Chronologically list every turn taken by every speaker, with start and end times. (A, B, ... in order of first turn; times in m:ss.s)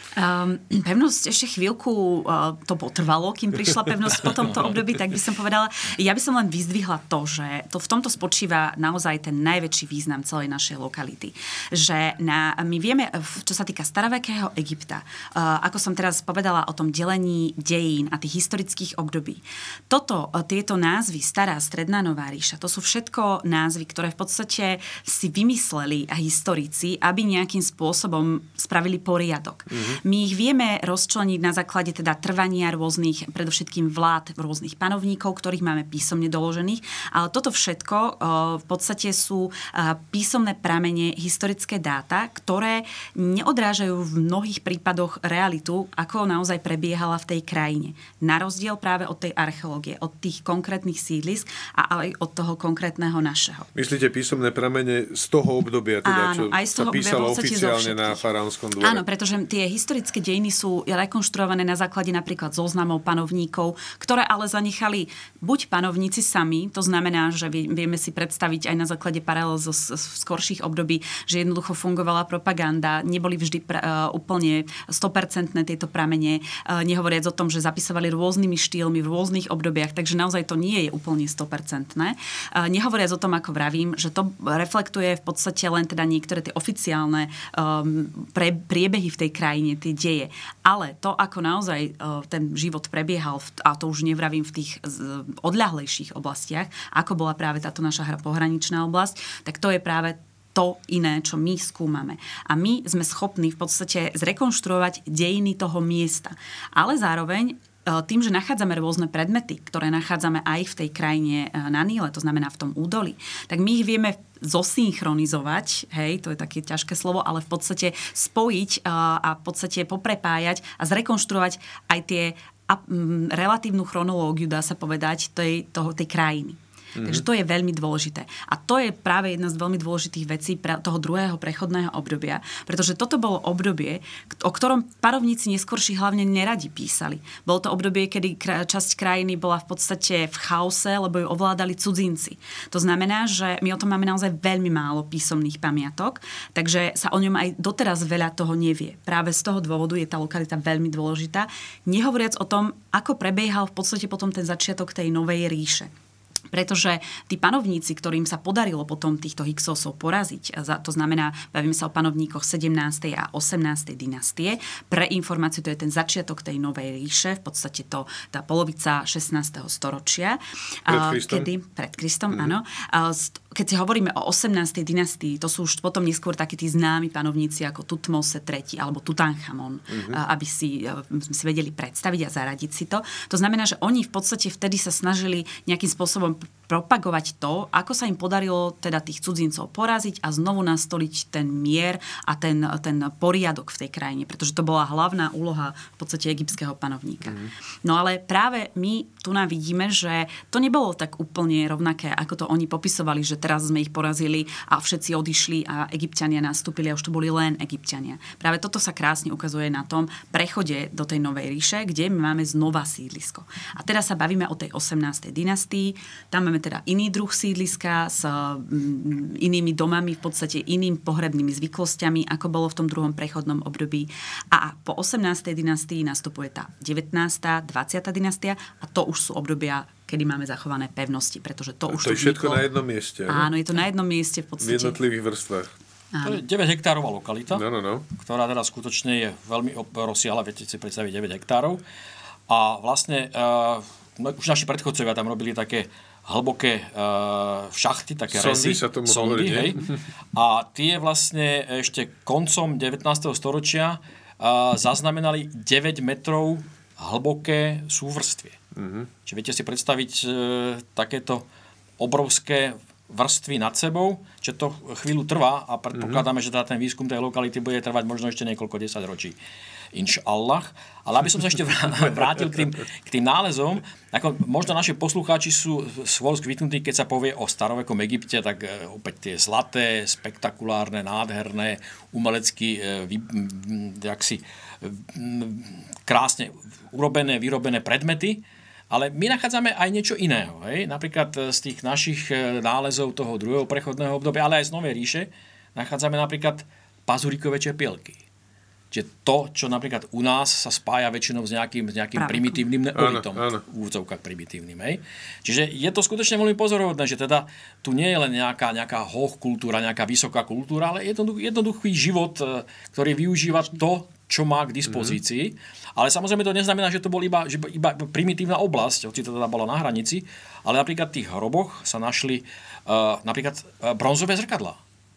0:00.2-0:53.7 A
0:29.7-0:30.0 B
0:53.8-0:59.0 B
0:56.0-0:58.2 A
0:58.8-2:35.9 A
2:07.0-2:07.2 B
2:36.5-3:52.6 A
2:50.9-2:51.5 B
2:59.9-3:00.2 B
3:51.9-3:53.5 B
3:53.3-3:55.0 A
3:54.6-3:55.7 B
3:56.1-3:56.4 A
3:56.2-4:01.8 C
3:57.5-3:58.1 B
4:02.5-4:18.6 C
4:08.3-4:09.8 B
4:18.8-4:19.1 B
4:19.3-4:21.5 C
4:22.0-4:29.4 C
4:25.9-4:26.2 B
4:29.9-4:58.2 C
4:58.9-5:24.8 C
5:02.2-5:02.6 A
5:02.9-5:03.6 B